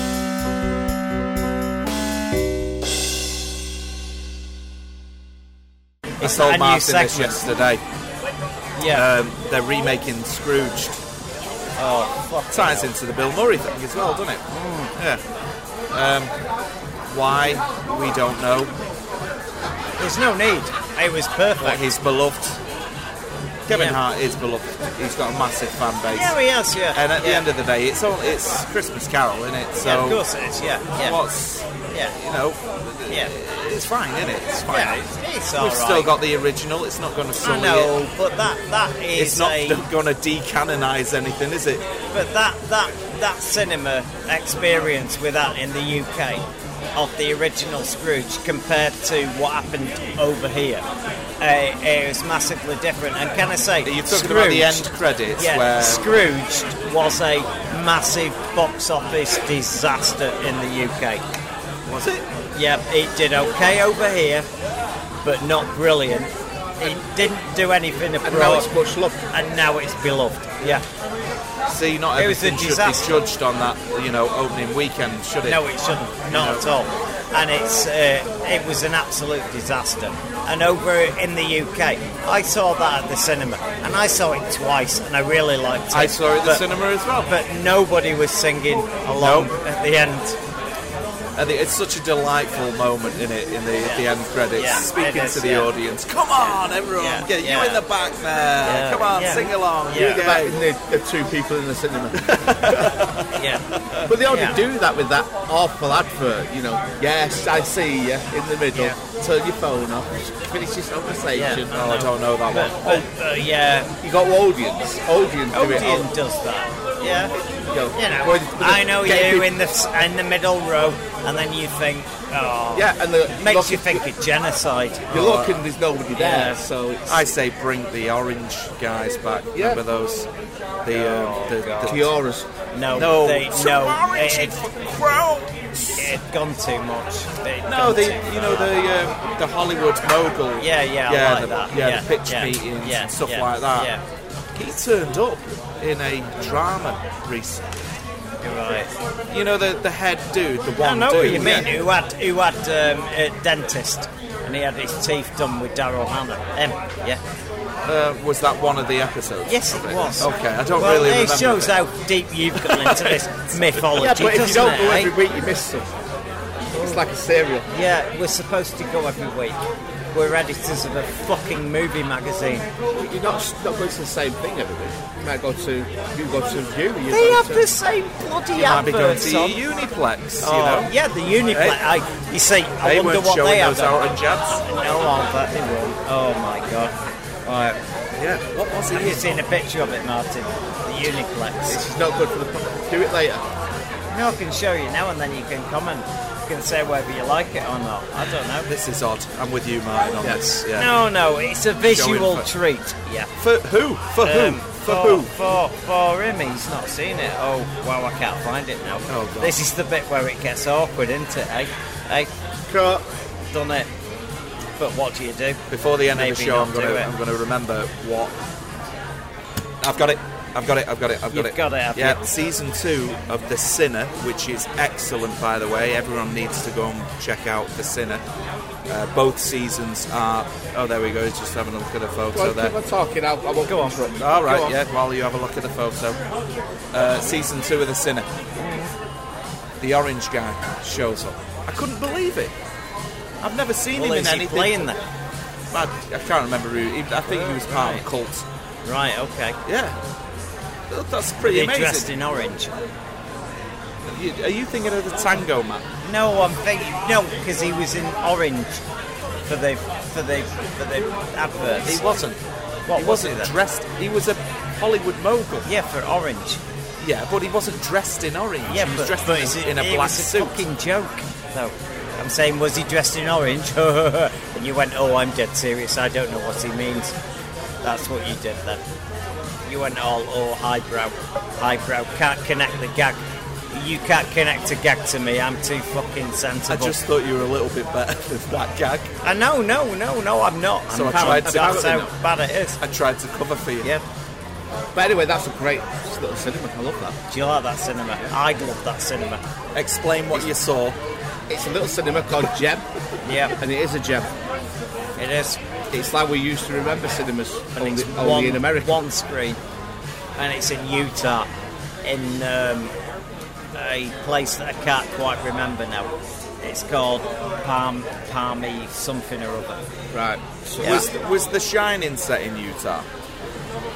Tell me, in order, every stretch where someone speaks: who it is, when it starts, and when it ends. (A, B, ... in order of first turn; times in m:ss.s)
0:06.2-0:07.4 A
0:06.2-0:07.8 B
0:08.8-0:09.1 A
0:08.9-0:11.0 B
0:11.8-0:12.9 A
0:12.5-0:14.4 B
0:14.5-0:14.9 A
0:15.0-0:15.2 B
0:15.9-0:16.3 B
0:17.1-0:18.7 B
0:20.0-0:21.9 A
0:21.6-0:22.6 B
0:23.7-0:26.4 B
0:23.7-0:24.0 A
0:26.1-0:27.4 A
0:26.9-0:30.2 B
0:29.8-0:31.2 A
0:30.9-0:38.0 B
0:31.9-0:32.2 A
0:34.7-0:36.1 A
0:37.4-0:39.9 A
0:39.2-0:41.9 B
0:42.1-0:50.9 A
0:51.4-1:01.2 A
0:53.8-0:56.0 B
1:01.8-1:02.3 B
1:02.5-1:04.5 A
1:05.2-1:08.7 A
1:08.2-1:09.2 C
1:09.3-1:10.8 A
1:11.7-1:15.7 B
1:12.2-1:13.3 A
1:15.4-1:26.6 A
1:16.3-1:16.7 B
1:25.9-1:27.3 B
1:27.2-1:30.4 A
1:29.1-1:29.5 B
1:31.4-1:40.6 B
1:33.8-1:35.7 A
1:37.0-1:37.8 A
1:38.6-1:40.2 A
1:40.2-1:42.9 C
1:42.2-1:44.1 B
1:43.4-1:43.7 A
1:44.1-1:51.7 C
1:44.3-1:44.6 A
1:51.3-1:53.9 A
1:51.7-1:53.1 B
1:54.0-1:56.1 C
1:55.5-1:57.3 A
1:57.6-1:59.5 C
1:57.9-2:05.1 A
2:02.7-2:04.1 C
2:05.1-2:07.3 C
2:05.1-2:05.6 B
2:06.2-2:06.6 A
2:07.1-2:10.3 B
2:09.6-2:09.8 C
2:10.8-2:12.1 B
2:10.9-2:12.0 A
2:11.9-2:12.5 C
2:12.7-2:14.6 A
2:13.0-2:15.7 B
2:16.0-2:18.7 A
2:17.6-2:23.9 B
2:20.6-2:24.0 A
2:24.6-2:27.9 B
2:28.4-2:28.9 A
2:29.3-2:31.7 B
2:30.8-2:37.2 A
2:37.8-2:41.8 B
2:39.5-2:45.1 A
2:42.6-2:43.8 B
2:44.0-2:46.0 C
2:46.7-2:47.7 C
2:46.7-2:47.0 A
2:47.7-2:52.7 A
2:52.9-2:57.7 C
2:57.1-2:59.6 A
2:58.6-3:00.9 B
3:00.4-3:04.1 A
3:01.5-3:01.8 B
3:02.8-3:04.6 B
3:04.6-3:06.9 A
3:07.4-3:07.8 A
3:08.2-3:09.4 B
3:08.9-3:11.8 A
3:11.7-3:13.4 C
3:14.1-3:18.7 A
3:18.7-3:21.0 B
3:20.8-3:23.3 A
3:21.8-3:22.5 B
3:23.4-3:25.4 B
3:24.2-3:32.3 A
3:29.1-3:29.6 B
3:32.7-3:33.0 C
3:33.5-3:33.9 A
3:34.8-3:35.6 A
3:35.7-3:38.3 B
3:36.1-3:37.1 A
3:39.8-3:48.2 B
3:41.3-3:42.2 A
3:48.9-3:52.8 B
3:52.3-3:54.6 C
3:53.7-3:54.7 A
3:54.2-3:56.2 B
3:56.9-3:58.3 B
3:58.6-3:58.9 A
3:59.8-4:02.5 B
4:03.4-4:04.8 B
4:03.9-4:05.0 A
4:05.7-4:08.4 B
4:07.3-4:08.0 A
4:08.8-4:09.6 A
4:09.6-4:10.0 B
4:10.9-4:12.1 B
4:11.4-4:12.7 A
4:14.1-4:15.9 B
4:16.0-4:18.8 A
4:19.5-4:22.0 A
4:21.9-4:22.4 B
4:22.9-4:23.5 A
4:23.0-4:25.7 B
4:25.6-4:26.6 A
4:27.0-4:30.6 B
4:28.7-4:37.2 A
4:37.8-4:38.8 A
4:39.7-4:43.2 A
4:43.7-4:47.0 A
4:46.7-4:49.1 B
4:49.2-4:52.8 A
4:50.9-4:52.1 B
4:51.1-4:52.1 C
4:52.8-4:53.9 B
4:54.9-4:57.2 C
4:57.3-4:59.4 A
4:59.8-5:01.0 B
5:01.5-5:02.9 C
5:03.2-5:03.6 A
5:03.6-5:04.3 C
5:05.2-5:05.6 A
5:05.9-5:09.0 C
5:07.8-5:09.6 A
5:10.4-5:11.5 A
5:12.0-5:12.9 A
5:13.8-5:19.8 A
5:20.1-5:21.0 C
5:20.8-5:23.1 B